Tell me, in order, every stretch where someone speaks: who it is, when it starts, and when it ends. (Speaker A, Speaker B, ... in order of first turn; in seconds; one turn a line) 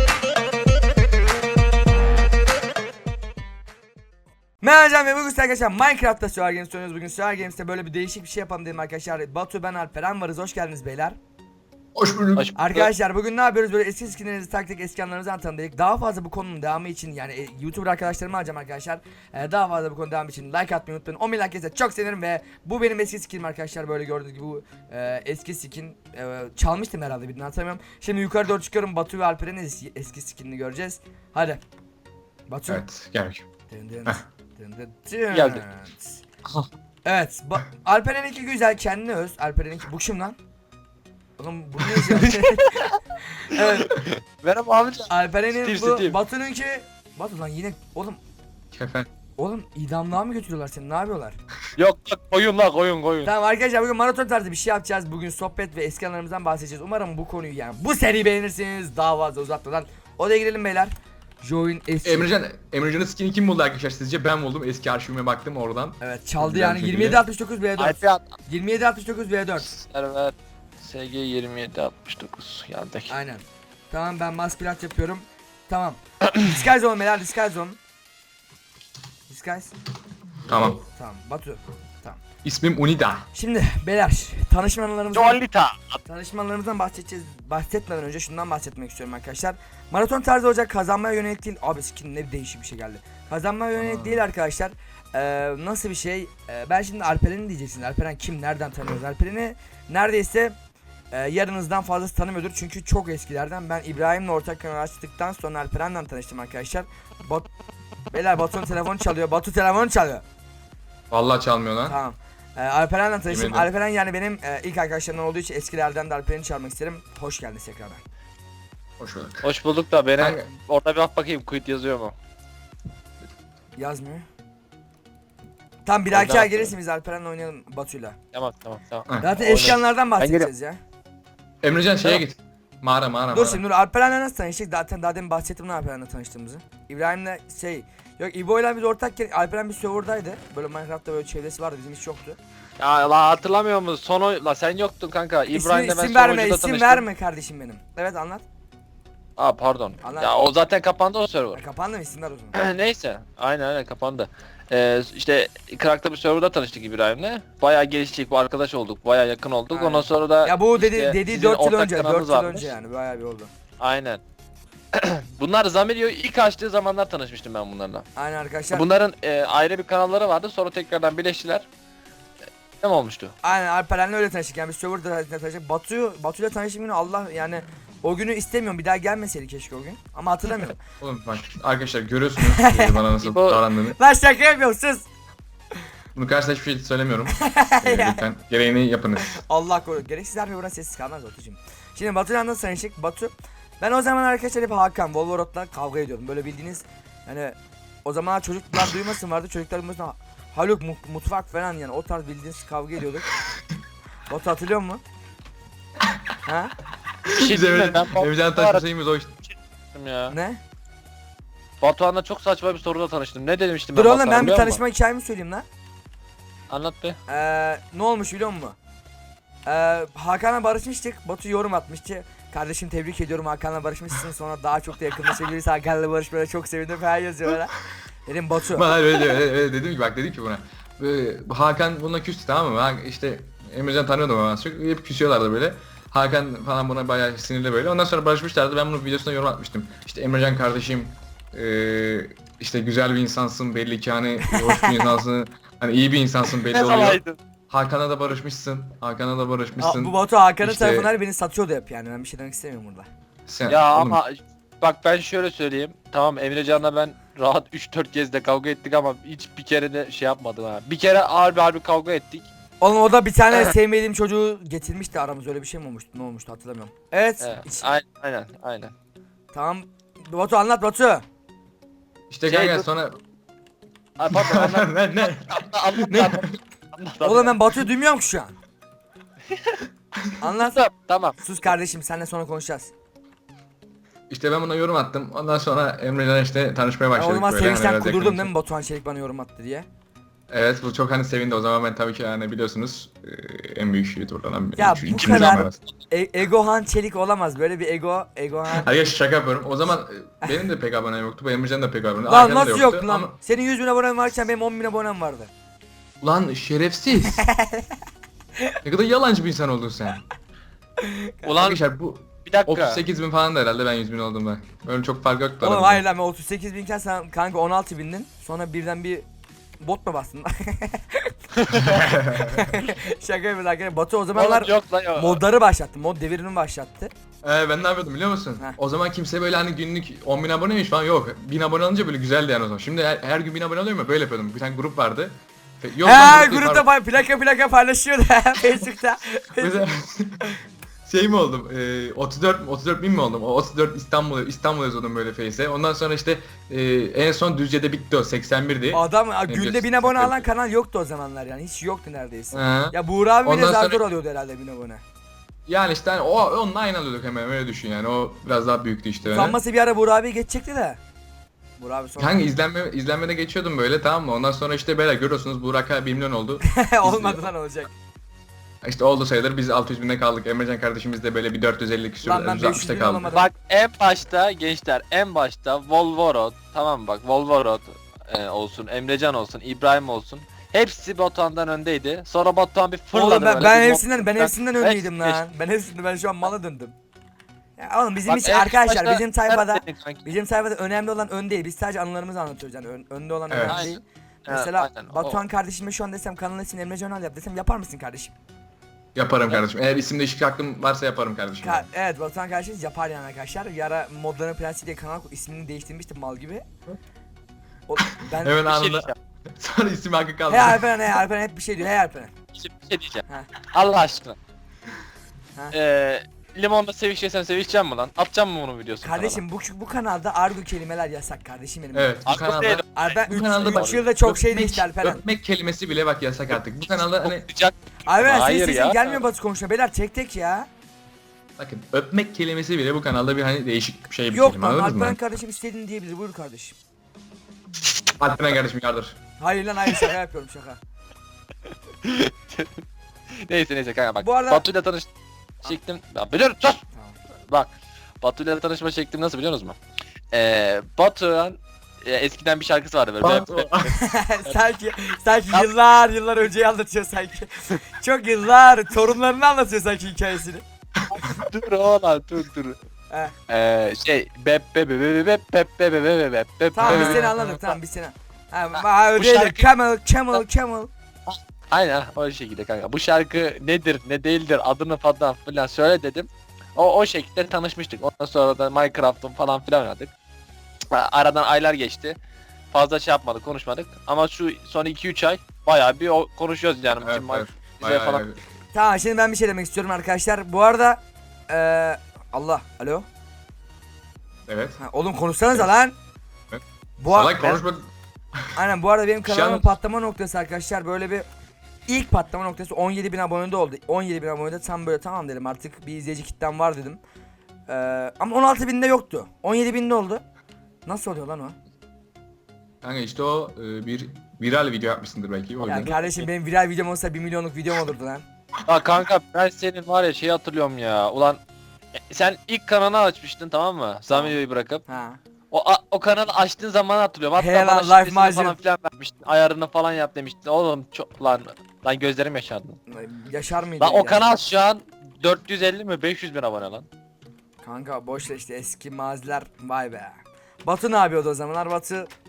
Speaker A: 4.6-11.2
Speaker B: 11.9-12.4
Speaker C: 12.3-12.9
Speaker A: 12.6-31.6
Speaker A: 32.5-32.8
Speaker B: 32.7-33.5
Speaker A: 33.7-36.2
Speaker C: 35.3-35.6
Speaker A: 37.0-40.4
Speaker A: 41.4-42.7
Speaker C: 42.0-43.0
Speaker A: 43.2-43.9
Speaker C: 43.5-46.1
Speaker A: 45.1-48.2
Speaker B: 48.7-49.1
Speaker A: 49.4-51.4
Speaker C: 51.8-53.3
Speaker A: 53.2-62.3
Speaker B: 62.0-67.2
Speaker A: 66.0-69.7
Speaker C: 67.8-68.2
Speaker C: 69.6-73.1
Speaker A: 73.1-77.8
Speaker A: 79.3-79.7
Speaker B: 80.5-80.8
Speaker A: 80.8-82.2
Speaker B: 82.4-83.3
Speaker A: 83.3-85.4
Speaker C: 85.1-86.0
Speaker A: 86.0-100.5
Speaker B: 93.7-94.2
Speaker A: 101.1-107.5
Speaker A: 108.1-110.2
Speaker B: 111.1-112.0
Speaker A: 111.8-118.0
Speaker B: 113.2-113.7
Speaker B: 119.0-119.5
Speaker C: 119.4-122.1
Speaker B: 120.2-120.5
Speaker A: 123.8-124.2
Speaker A: 125.8-128.2
Speaker C: 126.1-126.7
Speaker C: 128.3-130.5
Speaker B: 129.1-129.8
Speaker A: 129.2-130.8
Speaker B: 131.6-133.6
Speaker A: 133.3-142.4
Speaker C: 142.8-147.0
Speaker A: 145.5-148.4
Speaker C: 149.4-151.6
Speaker A: 150.0-150.4
Speaker A: 151.5-152.6
Speaker C: 152.5-162.7
Speaker A: 159.7-163.5
Speaker C: 163.8-164.2
Speaker C: 164.9-168.0
Speaker A: 168.2-168.8
Speaker C: 168.7-171.7
Speaker C: 172.8-173.3
Speaker A: 173.4-180.8
Speaker B: 181.0-184.0
Speaker A: 182.4-183.0
Speaker C: 183.2-183.6
Speaker A: 183.9-185.1
Speaker B: 186.1-189.4
Speaker A: 187.3-188.2
Speaker A: 189.2-203.3
Speaker A: 204.3-205.0
Speaker A: 206.4-206.7
Speaker B: 207.2-209.4
Speaker C: 207.4-208.8
Speaker C: 209.9-210.3
Speaker A: 210.3-210.6
Speaker C: 211.8-214.8
Speaker A: 213.9-215.6
Speaker C: 216.7-217.2
Speaker A: 217.3-218.8
Speaker A: 219.6-228.9
Speaker B: 228.7-251.1
Speaker A: 244.4-245.1
Speaker C: 246.7-247.4
Speaker A: 249.8-253.1
Speaker B: 253.5-254.2
Speaker C: 253.7-262.5
Speaker A: 262.8-267.9
Speaker C: 267.4-268.9
Speaker A: 269.5-271.2
Speaker B: 272.3-273.2
Speaker C: 272.5-272.9
Speaker C: 274.2-277.6
Speaker B: 274.3-276.6
Speaker A: 277.2-278.6
Speaker C: 279.5-279.8
Speaker A: 280.4-280.8
Speaker C: 280.4-281.4
Speaker A: 281.4-282.9
Speaker B: 284.3-288.5
Speaker A: 287.1-289.9
Speaker B: 290.5-295.8
Speaker A: 294.8-298.9
Speaker C: 295.2-295.7
Speaker B: 298.7-303.4
Speaker A: 302.3-305.5
Speaker B: 306.2-307.4
Speaker A: 307.2-307.9
Speaker B: 308.8-310.2
Speaker A: 311.0-311.5
Speaker C: 311.4-311.8
Speaker B: 311.5-316.0
Speaker C: 312.4-313.0
Speaker A: 315.6-319.2
Speaker A: 319.8-327.1
Speaker B: 321.7-322.7
Speaker C: 324.3-325.4
Speaker B: 327.4-336.9
Speaker A: 336.0-339.9
Speaker B: 339.6-340.4
Speaker B: 341.1-350.4
Speaker A: 348.9-355.0
Speaker B: 352.5-354.0
Speaker B: 355.7-359.6
Speaker A: 359.3-361.0
Speaker A: 361.8-362.4
Speaker B: 362.2-367.5
Speaker A: 366.6-367.9
Speaker B: 368.8-373.3
Speaker A: 372.2-373.5
Speaker C: 373.3-385.4
Speaker A: 383.1-386.9
Speaker A: 387.8-398.3
Speaker C: 388.2-390.2
Speaker B: 393.5-393.9
Speaker C: 393.7-395.4
Speaker B: 399.1-401.9
Speaker A: 401.6-406.7
Speaker A: 407.9-408.6
Speaker B: 408.0-411.1
Speaker C: 408.6-409.1
Speaker A: 410.5-412.3
Speaker C: 412.5-414.4
Speaker C: 415.7-419.4
Speaker A: 419.0-422.1
Speaker B: 421.9-427.5
Speaker C: 422.3-424.0
Speaker A: 422.9-425.2
Speaker C: 426.5-429.2
Speaker A: 428.1-430.7
Speaker B: 431.6-435.2
Speaker A: 434.3-436.8
Speaker B: 437.8-439.2
Speaker A: 439.4-440.8
Speaker C: 442.0-445.1
Speaker A: 444.2-444.6
Speaker C: 445.6-446.8
Speaker A: 446.9-447.2
Speaker C: 447.5-449.8
Speaker C: 450.3-454.6
Speaker B: 453.2-453.9
Speaker A: 453.9-460.6
Speaker C: 461.1-462.8
Speaker C: 463.5-467.8
Speaker A: 466.7-470.9
Speaker B: 466.8-467.6
Speaker C: 468.8-469.7
Speaker C: 471.3-480.1
Speaker C: 480.9-482.2
Speaker C: 482.7-488.2
Speaker B: 487.0-488.4
Speaker A: 488.7-493.1
Speaker B: 494.5-494.8
Speaker A: 494.8-495.9
Speaker B: 496.5-498.5
Speaker A: 497.0-497.6
Speaker A: 498.5-501.3
Speaker B: 499.2-499.7
Speaker A: 501.9-507.0
Speaker A: 507.7-510.2
Speaker A: 510.8-511.6
Speaker B: 512.8-515.9
Speaker C: 515.6-516.3
Speaker A: 515.6-518.2
Speaker C: 518.7-521.4
Speaker C: 522.0-524.8
Speaker A: 524.1-525.2
Speaker C: 525.5-532.8
Speaker A: 527.3-528.6
Speaker A: 532.9-534.2
Speaker C: 533.8-536.9
Speaker A: 537.6-542.1